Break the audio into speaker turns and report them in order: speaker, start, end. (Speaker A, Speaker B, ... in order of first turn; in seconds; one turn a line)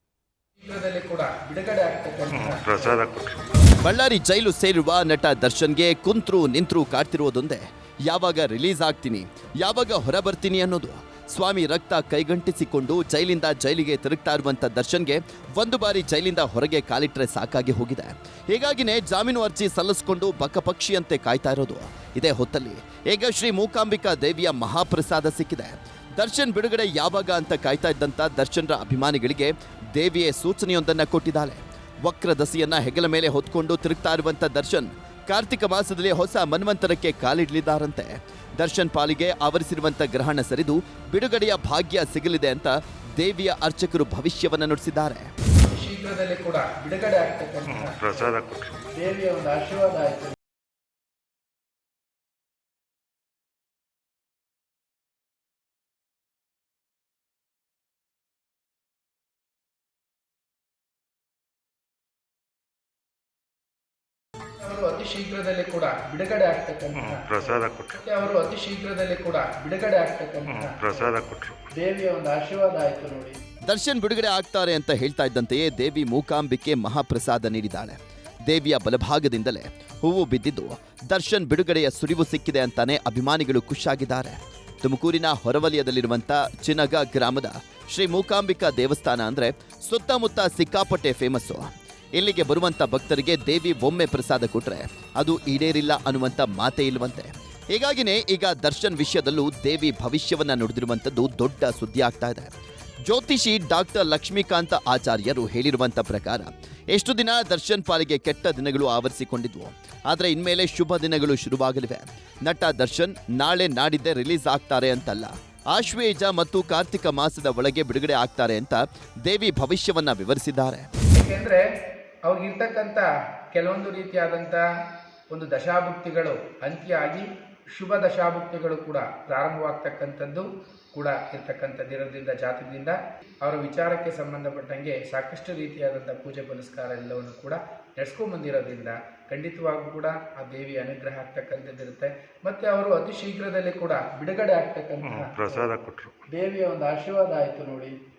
Speaker A: 0.6-2.6
Speaker B: 2.3-3.4
Speaker C: 3.8-45.3
Speaker A: 45.6-48.0
Speaker B: 47.7-48.8
Speaker A: 49.0-50.3
Speaker A: 64.6-67.3
Speaker B: 66.9-68.0
Speaker A: 67.9-70.8
Speaker B: 70.5-71.6
Speaker A: 71.7-73.4
Speaker C: 73.6-102.5
Speaker C: 103.0-120.9
Speaker A: 121.2-121.6
Speaker A: 122.2-124.6
Speaker A: 125.3-145.7
Speaker B: 145.0-146.1
Speaker A: 146.3-147.9